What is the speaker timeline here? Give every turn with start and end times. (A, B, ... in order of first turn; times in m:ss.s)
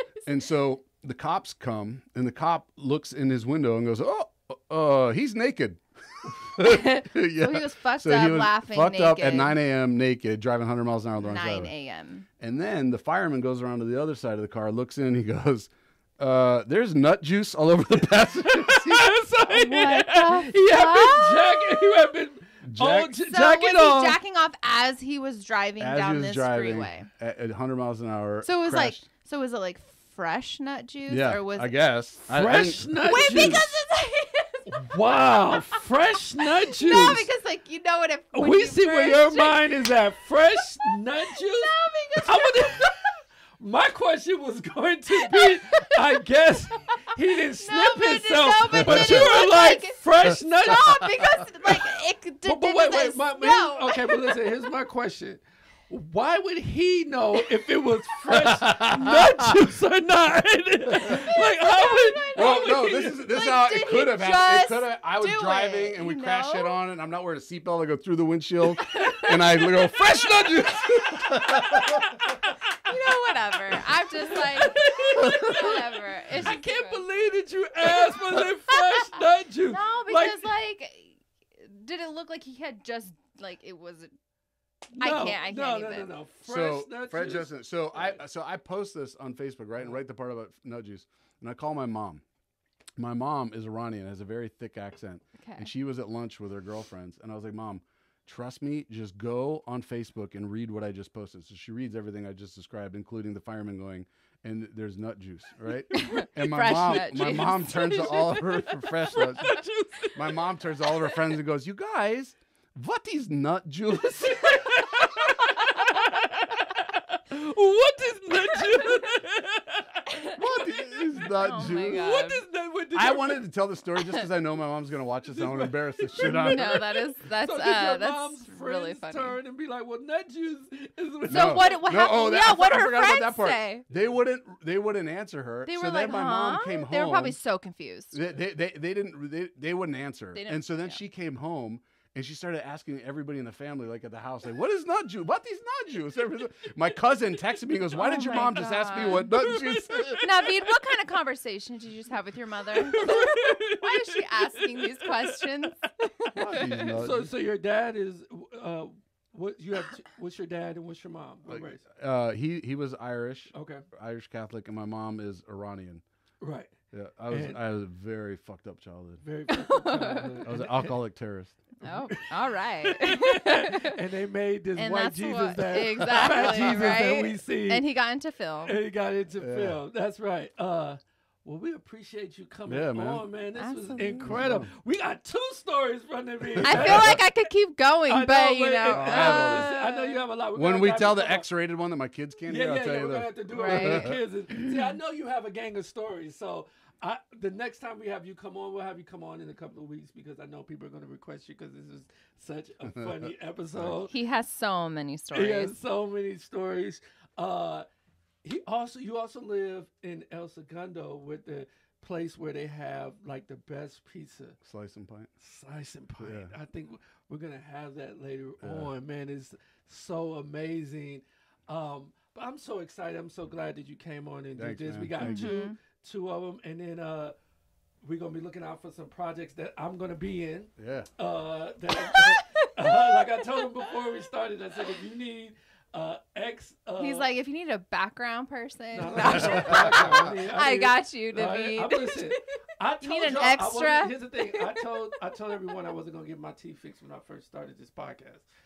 0:00.3-0:11.7 A
0:06.6-0:09.6 B
0:11.2-0:12.3 B
0:12.4-0:19.2 A
0:18.5-0:24.2 C
0:19.5-0:22.0 B
0:22.6-0:23.1 A
0:23.1-0:27.1 B
0:25.8-0:29.0 A
0:28.4-0:31.7 B
0:31.1-0:33.5 A
0:32.3-0:33.7 C
0:32.5-0:35.9 B
0:34.7-0:37.3 C
0:36.6-0:39.8 B
0:38.3-0:42.9 C
0:41.3-0:42.9 B
0:43.6-0:51.1 C
0:45.2-0:45.9 B
0:47.5-0:54.5 B
0:49.0-0:49.2 A
0:52.4-1:03.1 C
0:58.5-0:59.3 A
1:01.0-1:06.7 B
1:02.3-1:12.1 A
1:08.8-1:10.0 B
1:11.3-1:12.3 C
1:12.8-1:17.1 B
1:14.3-1:20.4 C
1:18.0-1:19.2 B
1:19.7-1:24.1 B
1:24.9-1:28.2 C
1:25.0-1:26.1 B
1:26.5-1:32.2 A
1:33.0-1:54.6 A
1:35.4-1:35.7 B
1:45.9-1:49.6 B
1:46.9-1:50.4 C
1:54.3-2:01.0 C
2:00.4-2:02.1 A
2:01.2-2:02.4 B
2:01.6-2:03.4 C
2:02.9-2:06.8 A
2:05.3-2:11.8 C
2:06.2-2:09.4 B
2:11.3-2:13.8 B
2:11.3-2:17.4 A
2:15.7-2:18.2 B
2:18.1-2:30.3 A
2:20.4-2:21.0 B
2:27.9-2:29.3 B
2:29.4-2:30.5 C
2:30.2-2:36.9 B
2:32.7-2:35.9 C
2:36.3-2:37.3 A
2:36.4-2:41.8 C
2:41.5-2:46.0 A
2:43.5-2:43.8 C
2:46.4-2:46.7 C
2:46.9-2:49.2 A
2:47.3-2:47.6 C
2:49.2-2:51.0 C
2:49.5-2:50.4 B
2:50.4-2:51.6 A
2:51.8-2:54.0 B
2:52.8-2:57.8 C
2:54.8-2:58.8 B
2:56.2-2:56.8 A
2:58.6-3:07.3 C
2:59.4-2:59.8 A
3:02.7-3:03.2 A
3:03.6-3:04.4 B
3:04.0-3:04.7 A
3:06.4-3:07.2 A
3:06.6-3:10.2 B
3:08.1-3:11.4 C
3:08.9-3:09.7 A
3:10.5-3:14.2 A
3:12.5-3:24.1 C
3:13.5-3:14.9 B
3:22.8-3:24.0 A
3:24.1-3:25.8 B
3:25.3-3:27.9 C
3:28.4-3:34.6 C
3:34.6-3:35.3 A
3:35.4-3:47.4 C
3:36.2-3:36.5 A
3:38.6-3:38.9 A
3:44.6-3:45.6 A
3:45.2-3:45.8 B
3:48.0-3:57.3 C
3:50.8-3:51.1 A
3:52.1-3:52.7 B
3:57.0-4:02.4 B
3:58.9-4:08.4 C
3:59.4-4:00.2 A
4:03.0-4:05.1 B